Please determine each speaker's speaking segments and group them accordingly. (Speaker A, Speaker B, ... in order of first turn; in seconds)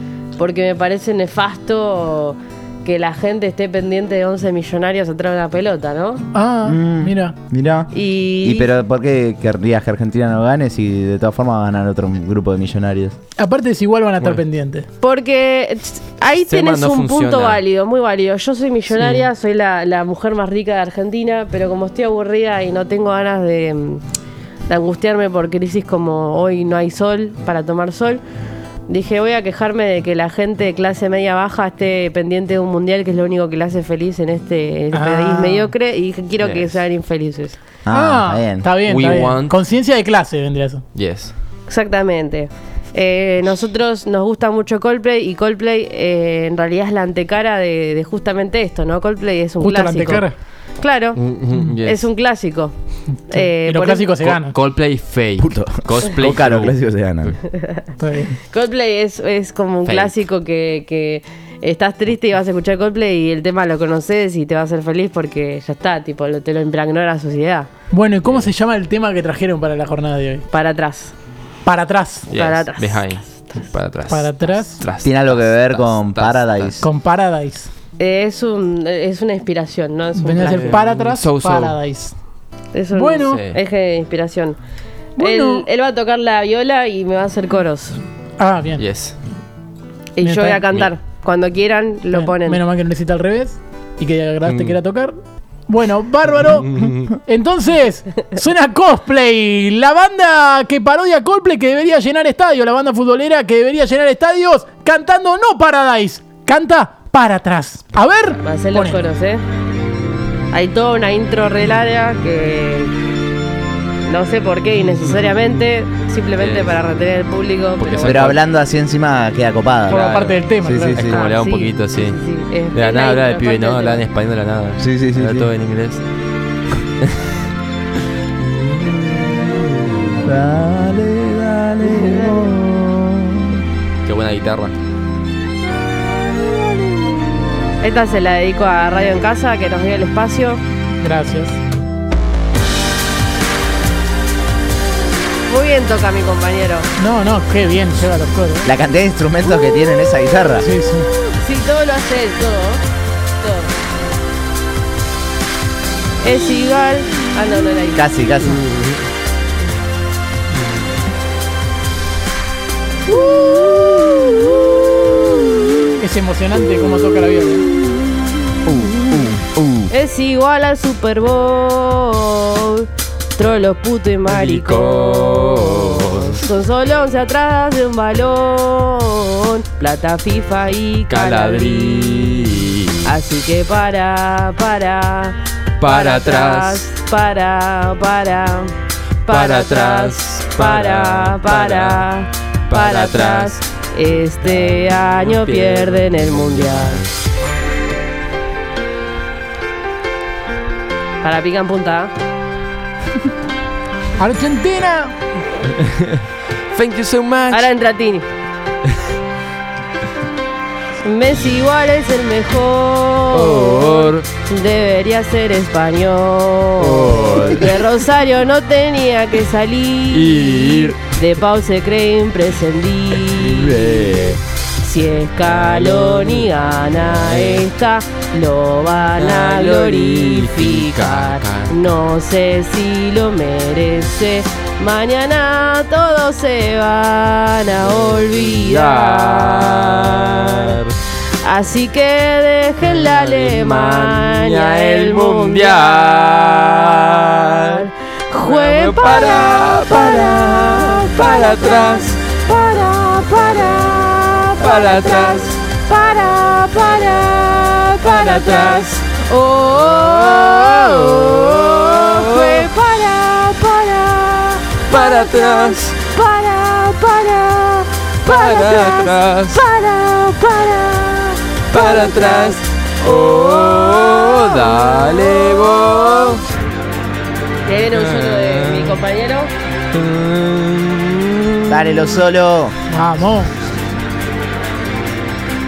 Speaker A: 0.4-6.2, 7.9-8.7, 15.0-24.0, 24.7-28.2, 28.9-37.6, 41.7-50.3, 50.8-51.2, 51.8-52.7, 53.3-54.1, 57.5-57.8, 58.5-67.7, 70.5-71.1, 72.3-73.5, 78.0-80.8, 82.7-84.6, 85.2-88.0, 90.1-92.6, 108.4-109.4, 110.5-112.9, 114.0-118.3, 121.1-124.0, 131.8-132.5, 137.8-140.6, 145.5-146.9, 151.3-152.8, 153.4-153.7, 156.2-158.0, 163.1-164.4, 169.9-182.5, 183.0-188.7, 189.2-197.0, 201.2-202.1, 207.5-208.3, 211.0-240.7, 241.4-276.4, 277.6-279.5
Speaker B: 6.3-7.3, 13.4-14.9, 34.9-35.7, 37.9-40.8, 49.6-50.4, 53.3-54.5, 58.0-58.4, 67.9-70.5, 71.6-72.3, 74.1-74.8, 76.8-77.7, 80.2-82.1, 82.9-83.4, 85.2-85.6, 88.4-88.8, 90.2-90.6, 92.1-95.2, 95.7-109.0, 119.9-121.0, 141.0-141.6, 147.0-148.7, 150.6-151.1, 166.0-167.6, 204.2-205.1, 282.9-283.5
Speaker C: 6.6-13.2, 37.8-38.7, 55.4-57.4, 75.0-76.9, 118.0-120.0, 120.6-121.2, 124.8-125.5, 128.4-129.5, 130.2-133.6, 148.6-150.7, 157.9-158.7, 168.7-169.9, 281.7-282.7
Speaker D: 16.4-17.6, 18.9-19.2, 36.4-36.8, 38.8-39.6, 40.9-41.3, 51.1-52.1, 54.2-57.4, 59.8-60.1, 68.2-68.5, 72.3-76.8, 80.4-81.8, 83.2-83.6, 88.8-89.2, 94.5-94.8, 96.7-97.0, 116.4-116.8, 117.8-118.4, 119.9-120.4, 120.9-122.2, 122.7-126.0, 134.0-134.7, 174.2-176.4, 181.1-183.2, 185.8-186.9, 189.3-192.1, 192.7-193.6, 194.4-197.1, 205.8-207.7, 213.3-214.3, 216.8-217.8, 220.1-221.1, 223.1-224.4, 225.4-227.7, 229.1-231.7, 237.8-241.0, 242.8-247.8, 248.4-252.2, 254.6-255.6, 258.0-259.1, 259.7-262.7, 264.9-265.9, 268.2-269.6, 271.7-276.4, 277.9-279.1, 279.9-282.2